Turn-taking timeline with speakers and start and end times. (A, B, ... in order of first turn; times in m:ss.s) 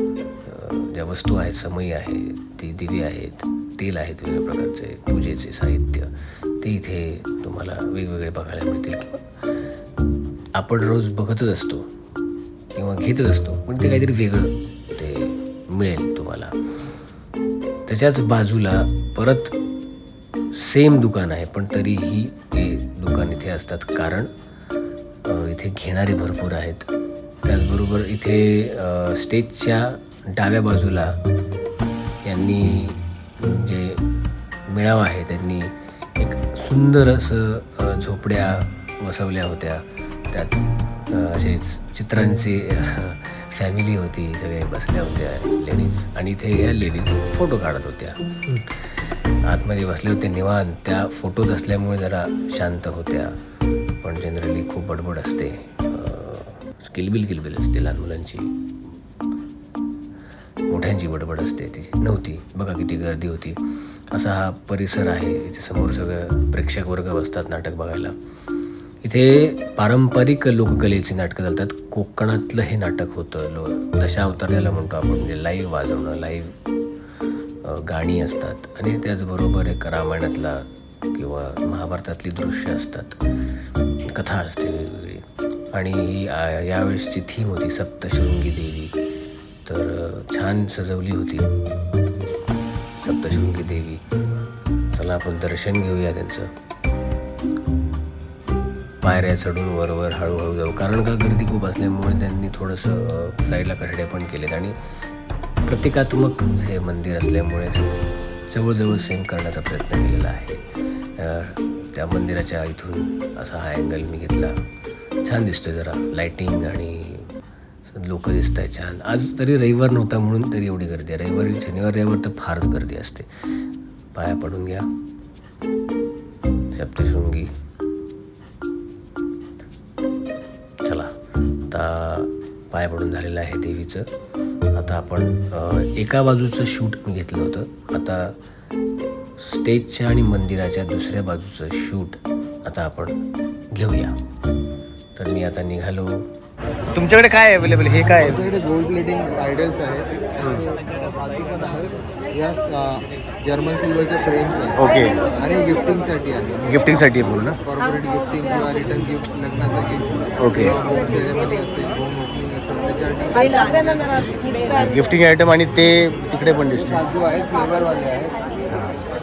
0:00.4-0:09.2 A
0:10.5-0:11.9 A
0:12.7-0:16.5 A
0:17.9-0:19.5 A
0:20.5-0:24.3 A
0:25.2-0:26.9 A
0:27.4-0:31.2 A
0:32.2-0:34.0 A
0:34.7-0:48.9 A
0:49.4-0:53.3 A
0:54.0-0:58.5 A
1:00.7-1:08.1 A
1:09.0-1:16.5 A
1:17.6-1:23.2 A
1:24.1-1:28.9 A
1:29.6-1:31.5 A
1:33.0-1:34.0 A
1:34.9-1:36.5 A
1:39.0-1:44.7 A
1:45.6-1:47.9 A
1:48.5-1:50.6 A
1:51.2-1:54.5 A
1:55.2-1:57.3 A
1:57.8-2:03.3 A
2:04.1-2:04.8 A
2:06.7-2:07.5 A
2:10.8-2:11.1 A
2:11.7-2:14.1 A
2:14.7-2:18.3 A
2:19.4-2:23.2 A
2:23.7-2:24.2 A
2:25.2-2:26.3 A
2:26.9-2:28.3 B
2:28.2-2:36.9 C
2:34.8-2:35.2 B
2:37.0-2:37.5 B
2:37.5-2:44.4 C
2:44.8-2:46.8 B
2:46.7-2:48.4 C
2:48.7-2:49.0 B